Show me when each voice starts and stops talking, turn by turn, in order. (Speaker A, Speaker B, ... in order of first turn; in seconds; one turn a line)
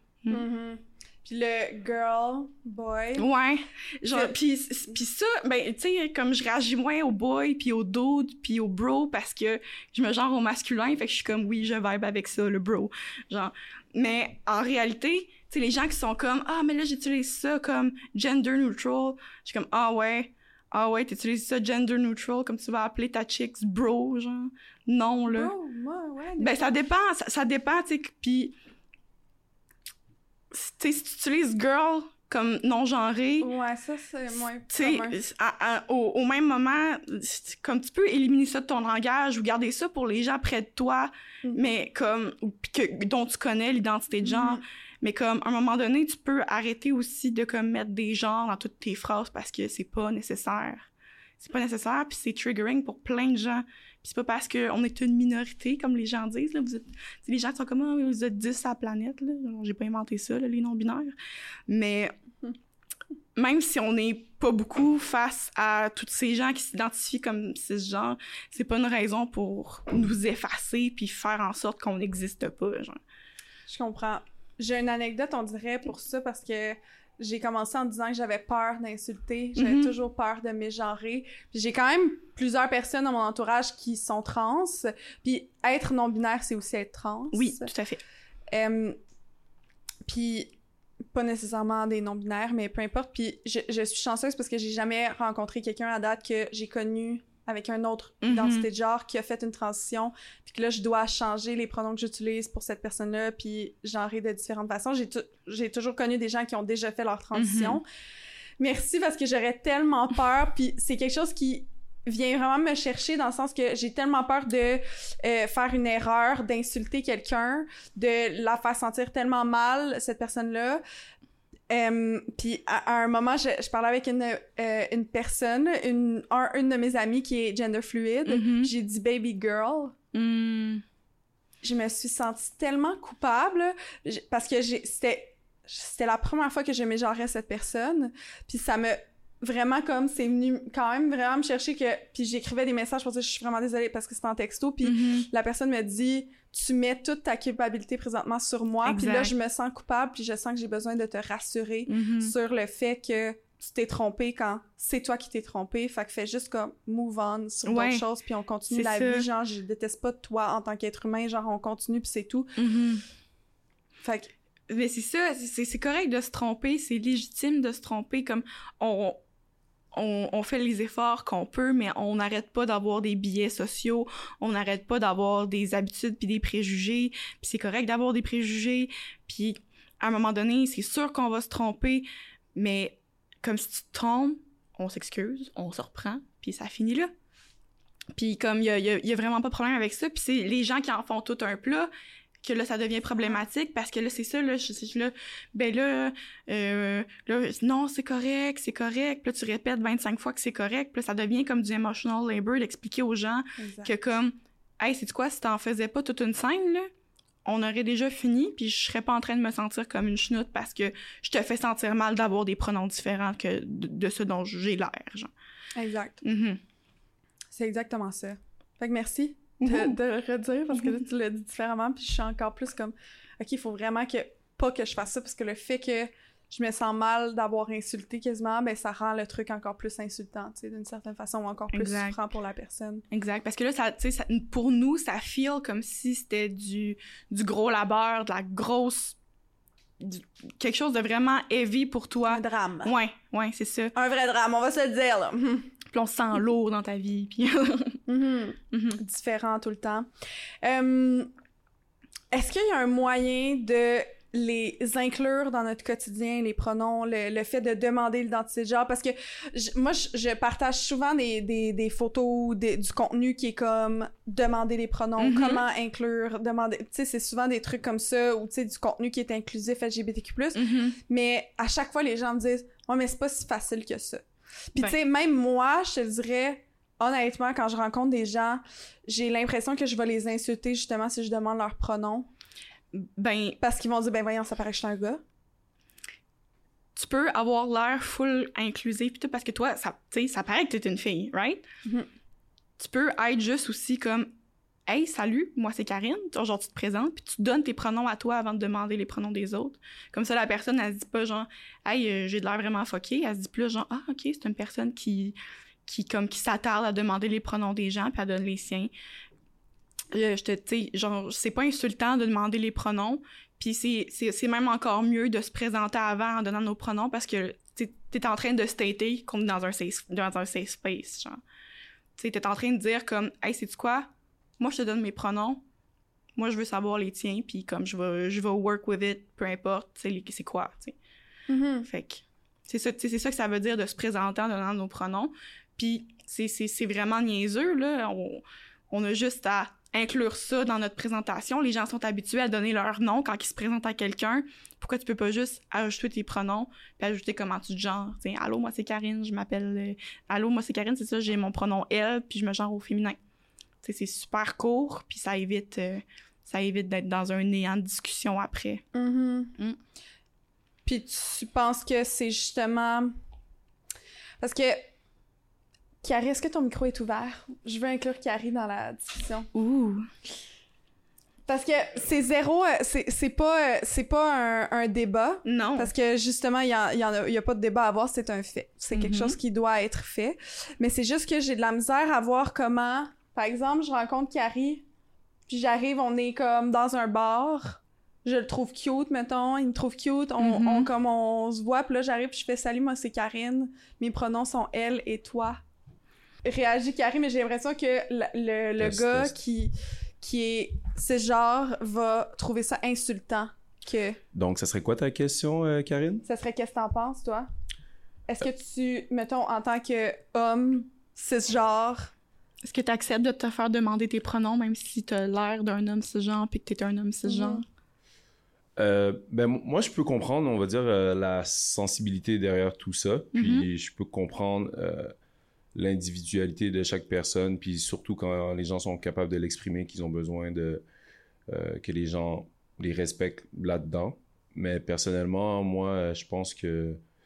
Speaker A: 0.3-3.3
Speaker B: 3.2-25.5
Speaker A: 25.3-26.7
Speaker B: 26.4-28.6
Speaker B: 30.5-33.5
Speaker A: 33.4-35.2
Speaker B: 34.7-50.9
Speaker A: 44.2-44.6
Speaker B: 51.4-61.1
Speaker B: 61.7-62.1
Speaker B: 63.4-73.0
Speaker A: 73.7-87.7
Speaker B: 79.6-79.9
Speaker B: 87.3-88.0
Speaker A: 88.5-89.0
Speaker A: 90.1-90.5
Speaker A: 91.1-107.8
Speaker B: 98.2-98.7
Speaker B: 107.3-107.8
Speaker A: 108.6-120.8
Speaker A: 121.7-129.9
Speaker B: 128.3-128.7
Speaker B: 130.1-130.8
Speaker A: 131.6-162.6
Speaker B: 144.8-145.3
Speaker B: 148.8-149.3
Speaker B: 151.9-152.3
Speaker B: 157.7-158.1
Speaker B: 158.7-159.3
Speaker B: 162.6-163.0
Speaker A: 164.0-164.3
Speaker B: 164.7-169.2
Speaker B: 169.9-187.1
Speaker B: 188.2-191.9
Speaker B: 192.4-206.9
Speaker A: 203.6-203.9
Speaker B: 207.4-215.3
Speaker A: 215.8-216.2
Speaker B: 216.2-216.6
Speaker A: 217.5-233.0
Speaker B: 219.6-220.0
Speaker B: 231.7-232.2
Speaker B: 233.1-239.2
Speaker B: 240.0-243.9
Speaker A: 242.3-242.9
Speaker A: 243.9-245.7
Speaker B: 245.9-248.0
Speaker A: 248.1-250.1
Speaker B: 248.7-249.0
Speaker A: 250.6-251.3
Speaker A: 252.3-282.3
Speaker B: 265.2-265.6
Speaker B: 270.6-271.0
Speaker B: 282.9-283.6
Speaker A: 283.6-285.2
Speaker B: 287.0-291.6
Speaker B: 292.8-294.3
Speaker B: 294.9-308.9
Speaker B: 310.1-321.4
Speaker B: 322.2-325.6
Speaker B: 326.4-331.0
Speaker A: 331.5-331.9
Speaker B: 331.9-353.2
Speaker B: 353.8-358.8
Speaker A: 358.9-359.6
Speaker A: 360.9-363.1
Speaker A: 364.4-364.9
Speaker A: 366.0-369.5
Speaker B: 369.5-370.1
Speaker A: 371.5-384.9
Speaker B: 375.4-375.9
Speaker B: 378.9-379.4
Speaker A: 385.5-395.6
Speaker B: 390.4-390.9
Speaker A: 396.4-404.2
Speaker C: 398.8-399.3
Speaker C: 404.3-406.2
Speaker A: 406.2-407.5
Speaker A: 408.3-412.1
Speaker B: 412.6-417.6
Speaker A: 417.3-417.6
Speaker C: 418.8-425.1
Speaker B: 423.3-423.7
Speaker C: 425.8-430.8
Speaker C: 431.5-437.0